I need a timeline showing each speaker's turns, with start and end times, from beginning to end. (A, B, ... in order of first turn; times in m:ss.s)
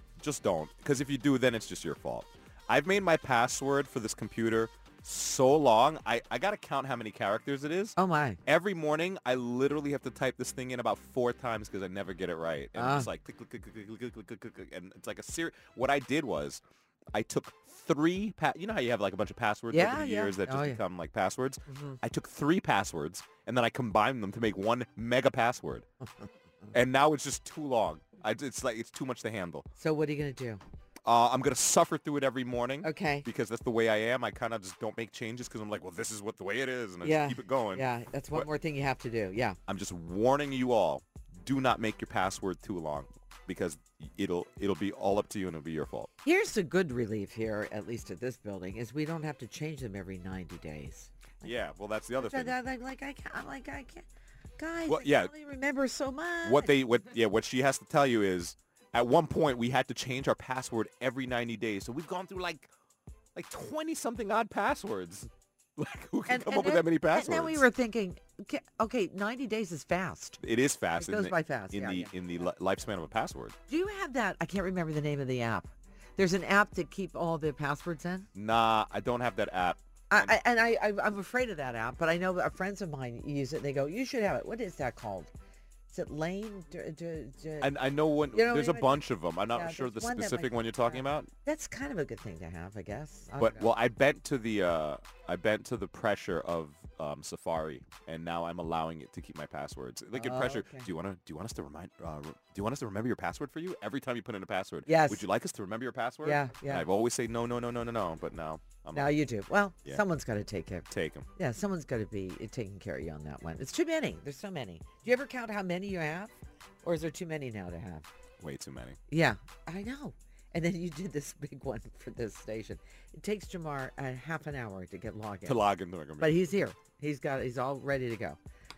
0:00.2-0:16.6 A
0:08.0-0:08.4 B
0:12.8-0:13.1 B
0:17.1-0:25.8 A
0:19.7-0:20.8 B
0:21.7-0:22.0 B
0:26.7-0:29.7 A
0:29.8-0:30.6 B
0:31.0-0:38.5 A
0:32.8-0:33.3 B
0:37.0-0:39.6 B
0:39.7-0:46.1 A
0:46.2-0:51.5 B
0:51.4-0:52.6 A
0:52.2-0:54.0 B
0:54.6-0:56.7 B
0:54.9-0:55.3 A
0:56.4-1:02.7 A
1:03.3-1:07.6 A
1:06.3-1:10.4 B
1:10.4-1:13.6 A
1:11.0-1:12.1 B
1:13.7-1:18.3 B
1:18.3-1:20.3 A
1:20.1-1:25.3 B
1:25.9-1:27.7 B
1:27.6-1:31.3 A
1:28.3-1:33.7 B
1:33.4-1:49.2 A
1:40.1-1:40.9 B
1:44.8-1:45.2 B
1:46.2-1:46.8 B
1:48.9-1:58.1 B
1:50.9-1:51.3 A
1:58.4-1:59.0 A
1:59.1-2:05.6 B
2:05.4-2:06.5 A
2:06.2-2:08.4 B